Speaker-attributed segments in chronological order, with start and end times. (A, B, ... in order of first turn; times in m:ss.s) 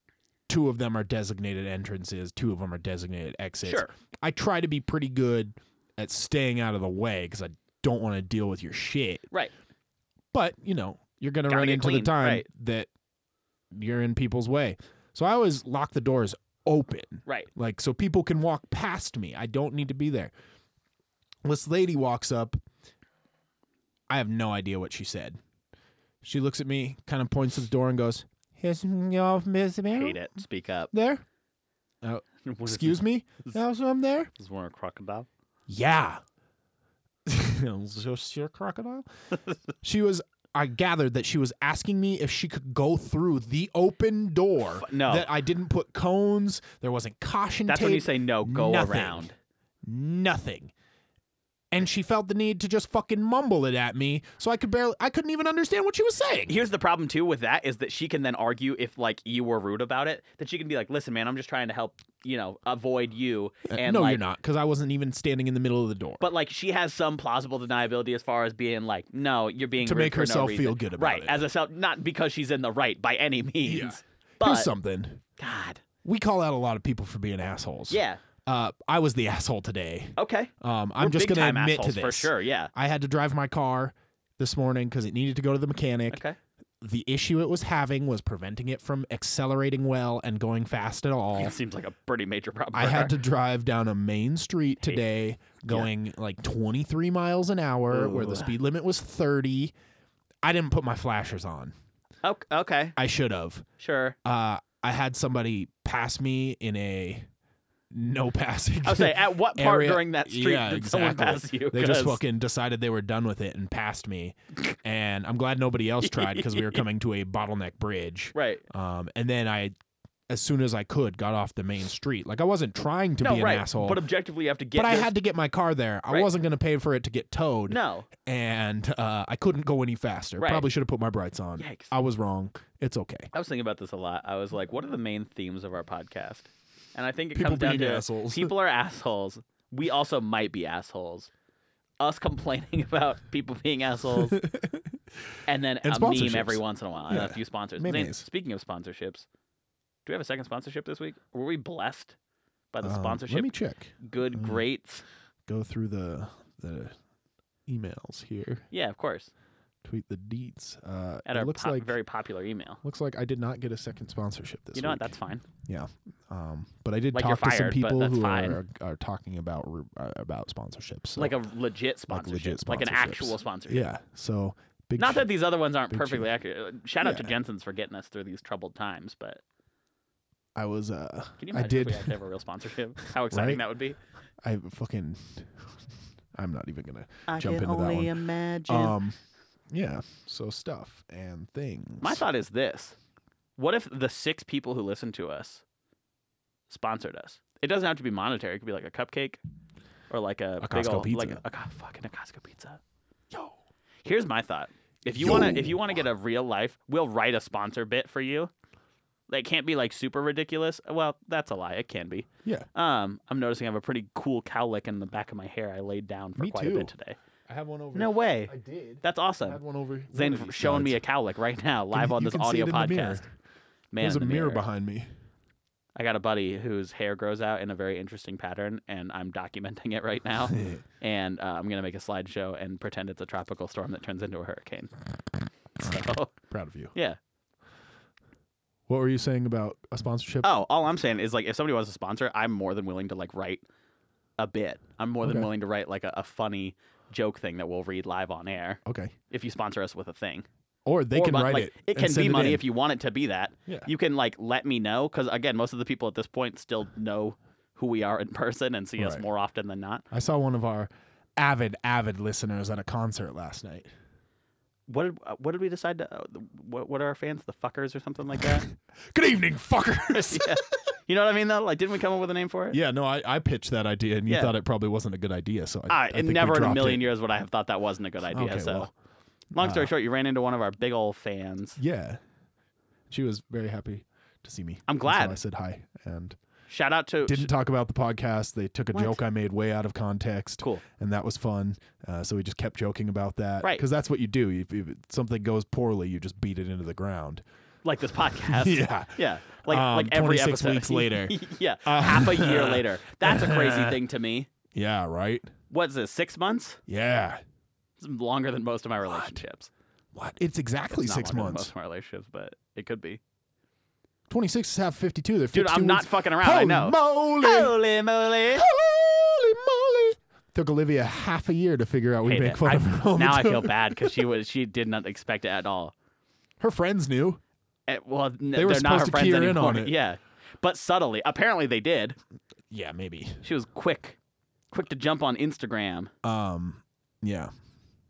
0:00.5-0:09.2 A
0:03.6-0:03.9 B
0:10.3-0:12.9 A
0:11.5-0:12.4 B
0:13.7-0:20.3 A
0:21.4-0:22.6 A
0:24.1-0:25.4 A
0:26.2-0:30.2 A
0:29.9-0:30.9 B
0:30.9-0:31.2 A
0:32.0-0:34.3 A
0:32.4-0:33.6 B
0:34.4-0:35.3 B
0:35.7-0:36.2 A
0:37.2-0:39.1 A
0:39.8-0:49.3 A
0:44.8-0:45.3 B
0:47.7-0:49.3 B
0:49.8-0:50.7 A
0:51.7-0:56.6 A
0:56.5-1:04.2 B
1:03.7-1:06.2 A
1:06.2-1:14.7 B
1:09.8-1:11.4 A
1:13.6-1:15.2 A
1:15.4-1:15.8 B
1:16.0-1:26.2 A
1:17.9-1:18.2 B
1:20.2-1:22.7 B
1:26.1-1:26.4 B
1:26.8-1:31.5 A
1:31.4-1:33.2 B
1:32.7-1:39.7 A
1:35.6-1:35.9 B
1:37.9-1:38.5 B
1:40.4-1:41.7 A
1:42.2-1:42.9 B
1:43.0-1:43.7 A
1:43.8-1:44.2 B
1:44.2-1:47.3 A
1:47.9-1:59.7 A
1:48.8-1:52.2 B
1:56.0-1:56.8 B
1:58.3-1:58.6 B
2:00.3-2:04.0 A
2:03.2-2:05.1 B
2:04.7-2:13.3 A
2:07.7-2:08.1 B
2:10.4-2:10.6 B
2:11.6-2:11.9 B
2:13.3-2:21.3 B
2:17.3-2:18.5 A
2:22.0-2:24.4 B
2:24.2-2:24.9 A
2:25.5-2:29.2 B
2:25.8-2:28.2 A
2:30.0-2:32.1 B
2:32.7-2:35.0 B
2:32.8-2:34.6 A
2:35.4-2:36.9 A
2:37.7-2:38.6 A
2:38.7-2:39.3 B
2:39.8-2:41.9 A
2:41.2-2:42.8 B
2:42.8-2:51.4 A
2:44.7-2:45.4 B
2:47.1-2:48.6 B
2:51.2-2:53.9 B
2:52.1-2:55.3 A
2:55.0-2:59.4 B
2:55.9-2:56.3 A
2:57.0-2:57.3 A
3:00.6-3:02.1 A
3:01.4-3:04.0 B
3:03.3-3:03.6 A
3:04.4-3:05.8 A
3:06.3-3:09.2 A
3:07.3-3:08.9 B
3:09.7-3:12.2 A
3:12.0-3:13.0 B
3:13.6-3:15.6 B
3:16.7-3:19.4 B
3:20.1-3:22.8 B
3:20.6-3:21.4 A
3:24.0-3:28.5 B
3:25.1-3:26.0 A
3:29.3-3:37.2 B
3:36.4-3:36.9 A
3:37.5-3:41.0 A
3:37.9-3:39.6 B
3:40.1-3:43.2 B
3:41.9-3:43.2 A
3:43.9-3:44.6 B
3:44.0-3:45.1 A
3:46.0-3:54.9 B
3:50.5-3:50.8 A
3:55.8-3:56.3 B
3:56.5-3:56.9 A
3:58.9-4:00.5 A
4:00.4-4:03.6 B
4:04.4-4:10.4 B
4:05.2-4:05.5 A
4:08.8-4:09.1 A
4:10.8-4:12.6 A
4:11.1-4:20.0 B
4:19.0-4:19.2 A
4:20.1-4:23.9 A
4:24.9-4:28.7 B
4:28.4-4:30.8 A
4:30.1-4:32.8 B
4:32.7-4:37.1 A
4:34.3-4:34.5 B
4:35.9-4:38.9 B
4:38.3-4:38.9 A
4:39.5-4:41.8 B
4:39.6-4:39.9 A
4:41.8-4:42.2 A
4:43.1-4:46.4 A
4:44.9-4:45.4 B
4:46.7-4:47.5 B
4:47.2-4:57.4 A
4:48.9-4:49.2 B
4:57.8-5:04.5 B
4:58.4-5:04.0 A
5:04.7-5:05.5 A
5:05.7-5:06.8 B
5:06.9-5:07.4 A
5:08.0-5:09.7 B
5:09.0-5:09.4 A
5:10.1-5:11.7 A
5:10.9-5:13.2 B
5:14.3-5:17.8 A
5:15.5-5:18.7 B
5:18.5-5:24.2 A
5:22.2-5:25.9 B
5:26.6-5:27.4 A
5:27.9-5:32.2 B
5:28.5-5:29.9 A
5:32.7-5:33.4 A
5:33.4-5:34.2 B
5:34.7-5:36.1 B
5:36.2-5:37.5 A